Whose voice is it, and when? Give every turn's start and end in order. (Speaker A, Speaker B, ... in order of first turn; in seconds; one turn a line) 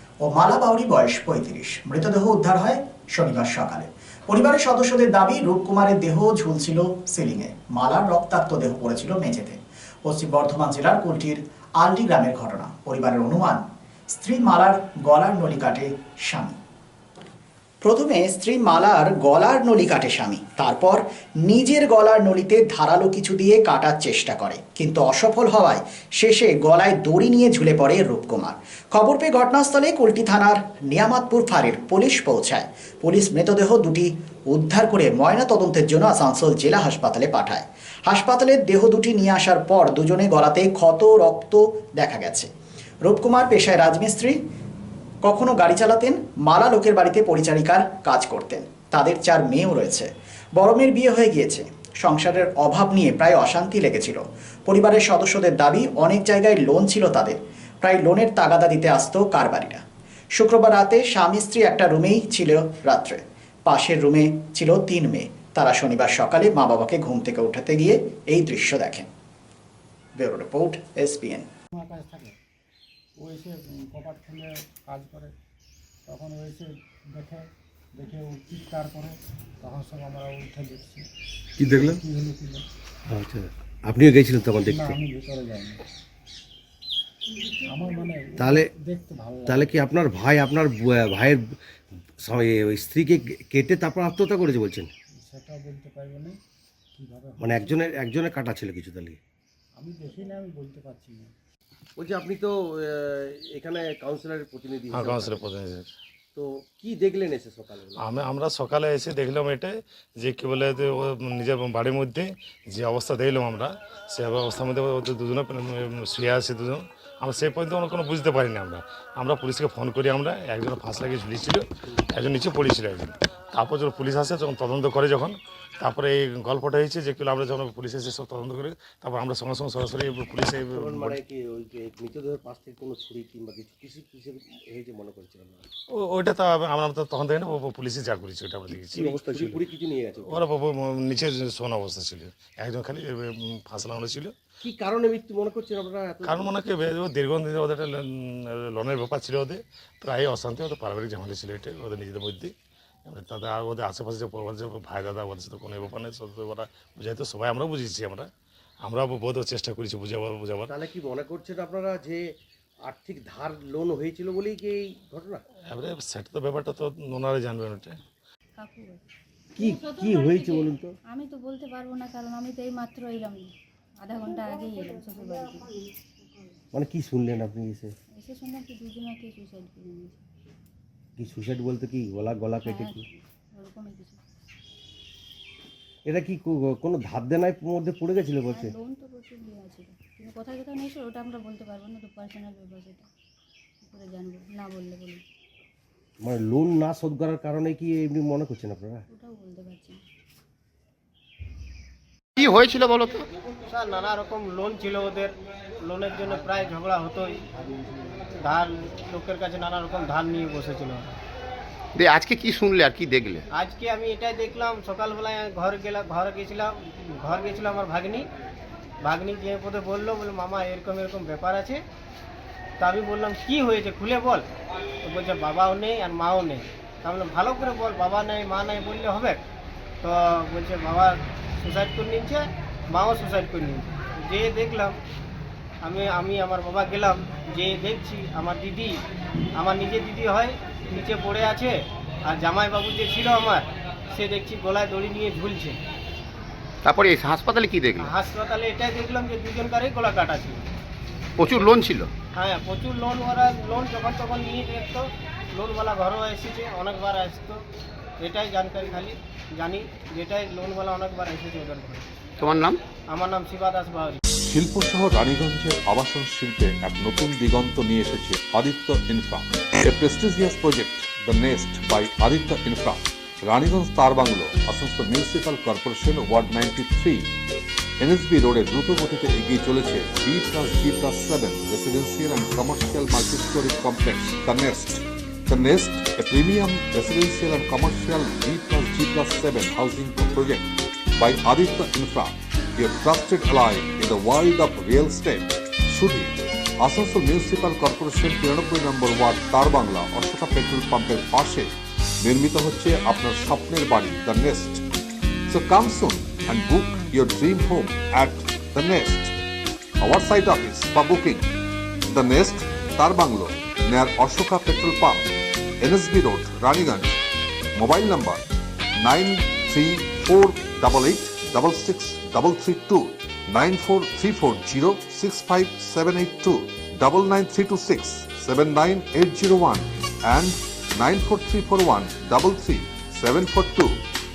Speaker A: 0.2-13.6
Speaker A: 14.1-16.6
Speaker A: 17.8-42.5
Speaker A: 43.0-44.4
Speaker A: 45.2-59.8
Speaker A: 60.3-69.1
Speaker A: 70.2-71.5
Speaker B: 71.8-72.3
Speaker B: 73.2-75.3
Speaker B: 76.1-81.0
Speaker C: 81.6-82.0
Speaker B: 81.6-82.7
Speaker C: 83.1-85.0
Speaker B: 84.7-85.8
Speaker B: 87.6-89.9
Speaker C: 88.4-88.7
Speaker C: 89.5-91.5
Speaker C: 92.2-94.9
Speaker B: 95.2-96.4
Speaker B: 97.0-98.0
Speaker C: 97.4-99.2
Speaker B: 99.8-101.3
Speaker C: 102.0-105.5
Speaker D: 104.9-105.9
Speaker C: 106.3-108.1
Speaker D: 108.0-131.2
Speaker C: 130.7-135.7
Speaker D: 135.9-139.6
Speaker C: 138.8-140.4
Speaker D: 140.3-144.3
Speaker C: 144.6-146.6
Speaker D: 146.2-152.5
Speaker D: 153.1-158.3
Speaker D: 158.8-160.8
Speaker C: 160.7-165.4
Speaker D: 165.7-168.0
Speaker E: 168.6-169.0
Speaker C: 169.6-170.9
Speaker E: 169.9-175.8
Speaker C: 176.7-177.9
Speaker E: 178.2-180.2
Speaker C: 181.2-183.1
Speaker E: 182.6-184.2
Speaker C: 186.1-188.7
Speaker E: 188.5-193.1
Speaker E: 193.8-195.2
Speaker C: 196.2-199.1
Speaker E: 199.1-200.0
Speaker F: 202.4-203.3
Speaker G: 203.7-207.5
Speaker B: 207.5-208.3
Speaker G: 208.3-211.1
Speaker F: 211.9-213.4
Speaker G: 213.5-218.3
Speaker G: 219.0-221.8
Speaker G: 222.8-224.5
Speaker G: 225.0-229.4
Speaker G: 230.0-235.0
Speaker G: 235.8-239.0
Speaker G: 239.6-245.8
Speaker F: 246.8-248.1
Speaker G: 248.0-250.6
Speaker F: 251.4-252.1
Speaker G: 252.3-257.6
Speaker G: 258.2-262.1
Speaker F: 262.4-262.8
Speaker G: 263.1-264.2
Speaker H: 264.4-277.3
Speaker H: 278.0-304.8
Speaker H: 305.5-309.3
Speaker H: 310.0-311.5
Speaker H: 312.1-315.3
Speaker H: 315.8-317.2
Speaker H: 317.8-318.4
Speaker H: 319.0-334.0